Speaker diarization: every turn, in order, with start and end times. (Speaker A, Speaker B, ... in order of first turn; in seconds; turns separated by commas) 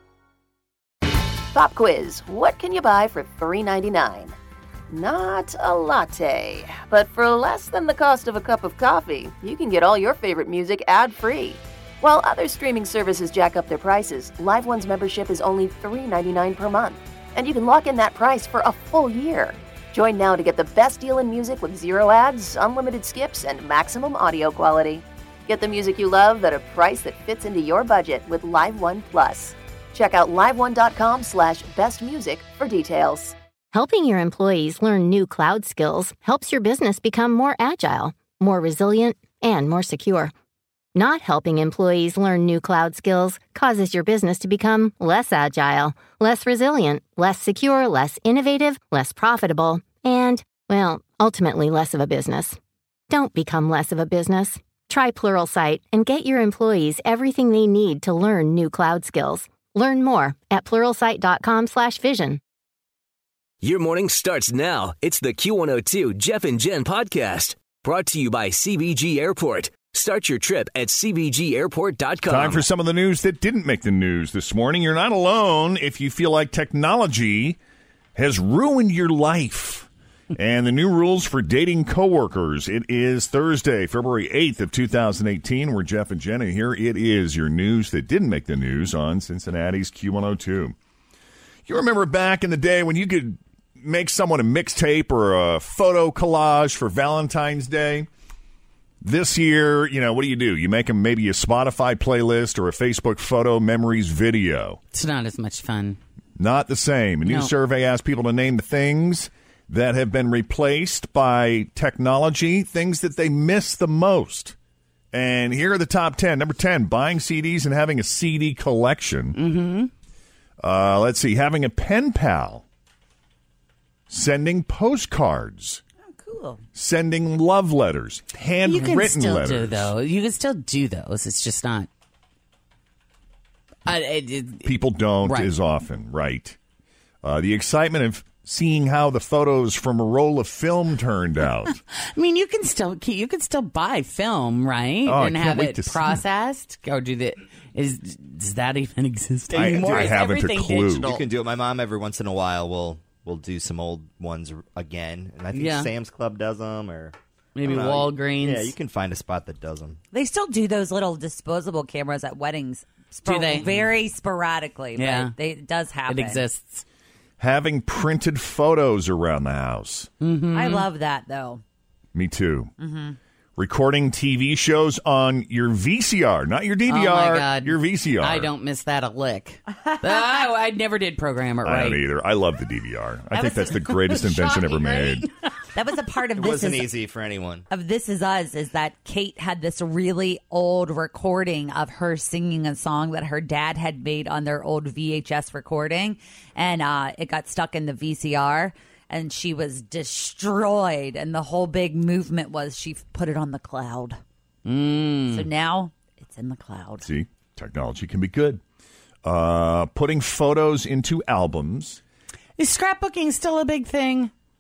Speaker A: 1.5-4.3, Speaker A: 4.9-33.4, Speaker B: 33.7-40.3, Speaker B: 41.0-52.6, Speaker B: 53.1-62.4, Speaker C: 63.6-72.7, Speaker D: 72.3-77.6, Speaker D: 78.2-90.8, Speaker D: 91.7-98.1, Speaker D: 99.0-104.8, Speaker E: 104.9-106.0, Speaker D: 106.4-114.5, Speaker E: 107.3-107.5, Speaker D: 115.1-119.4, Speaker E: 119.3-119.9, Speaker D: 120.6-122.6, Speaker D: 124.1-125.8, Speaker F: 126.1-126.6, Speaker D: 126.8-129.9, Speaker E: 128.6-131.9, Speaker E: 133.9-134.7, Speaker D: 134.6-136.6, Speaker E: 135.2-135.5, Speaker D: 137.2-141.8, Speaker E: 142.1-151.2, Speaker D: 145.1-146.2, Speaker G: 149.5-150.2, Speaker D: 149.5-151.2, Speaker G: 151.0-160.0, Speaker E: 155.5-155.9, Speaker E: 157.6-158.7, Speaker F: 160.1-166.4, Speaker E: 163.2-163.9, Speaker E: 165.0-165.3, Speaker E: 166.1-166.8, Speaker D: 167.4-170.1, Speaker E: 170.2-170.9, Speaker F: 170.5-171.6, Speaker D: 172.1-172.7, Speaker F: 172.8-173.2, Speaker D: 173.6-178.5, Speaker E: 176.9-182.0, Speaker F: 179.8-180.2, Speaker D: 181.6-185.3, Speaker F: 183.3-183.9, Speaker E: 184.1-185.3, Speaker F: 185.7-186.9, Speaker G: 186.4-187.7, Speaker F: 187.7-204.2, Speaker E: 204.7-205.5, Speaker F: 205.3-207.1, Speaker D: 207.0-208.6, Speaker D: 209.2-212.0, Speaker E: 212.6-214.3